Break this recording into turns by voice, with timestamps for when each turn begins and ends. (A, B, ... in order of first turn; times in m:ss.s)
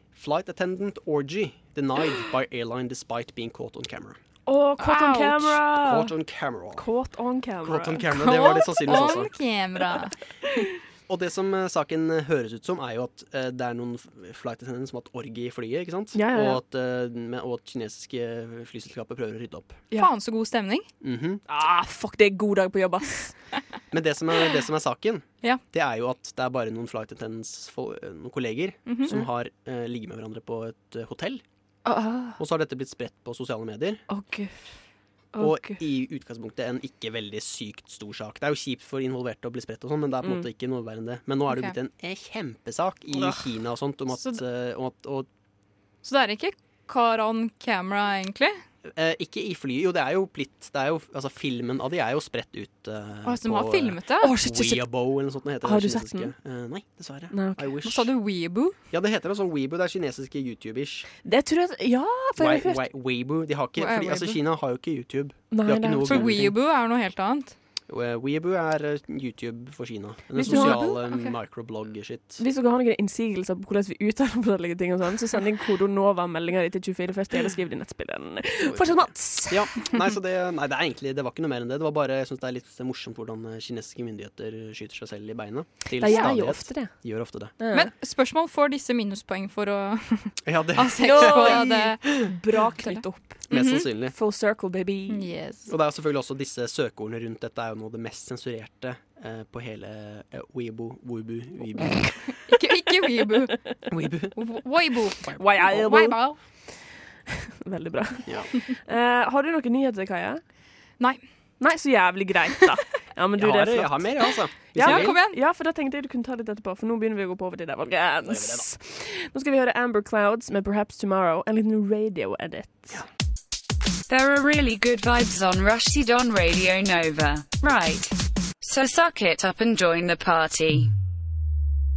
0:00.1-0:04.2 A
0:04.5-0:06.1 B
0:04.8-0:05.5 C
0:05.7-0:06.9 A
0:06.8-0:08.1 B
0:07.6-0:09.3 A
0:08.1-0:10.2 C
0:08.9-0:09.2 B
0:11.1-0:19.8 A
0:16.1-0:16.6 B
0:20.0-0:20.9 C
0:21.0-0:21.4 A
0:21.5-0:23.3 B
0:23.9-0:31.4 A
0:28.9-0:29.1 C
0:31.8-0:32.4 B
0:32.4-0:34.0 A
0:34.1-0:34.6 B
0:35.3-0:35.8 B
0:35.4-0:45.3 A
0:41.5-0:41.7 C
0:43.1-0:43.4 B
0:46.0-0:48.6 C
0:48.9-0:58.1 A
0:53.2-0:54.3 C
0:54.2-0:54.9 B
0:55.6-0:56.3 B
0:57.3-0:57.7 B
0:57.8-0:58.8 C
0:58.9-1:01.1 A
1:01.2-1:02.8 B
1:02.4-1:06.5 A
1:03.8-1:04.4 C
1:05.5-1:06.4 B
1:06.0-1:07.6 C
1:07.9-1:12.4 A
1:10.3-1:11.0 B
1:10.5-1:11.4 C
1:12.4-1:19.8 B
1:18.6-1:27.5 A
1:26.0-1:26.9 B
1:26.0-1:26.3 C
1:27.6-1:27.9 B
1:27.7-1:32.3 C
1:30.4-1:31.7 A
1:31.0-1:35.3 B
1:32.8-1:33.9 C
1:33.5-1:34.1 A
1:35.1-1:35.7 C
1:35.7-1:42.1 A
1:42.3-1:43.8 C
1:43.9-1:44.4 A
1:44.3-1:46.4 C
1:45.4-1:46.7 B
1:47.3-1:50.4 B
1:51.6-2:03.0 B
1:53.4-1:55.2 A
1:54.8-1:55.4 C
1:58.2-1:58.6 A
2:04.1-2:10.9 D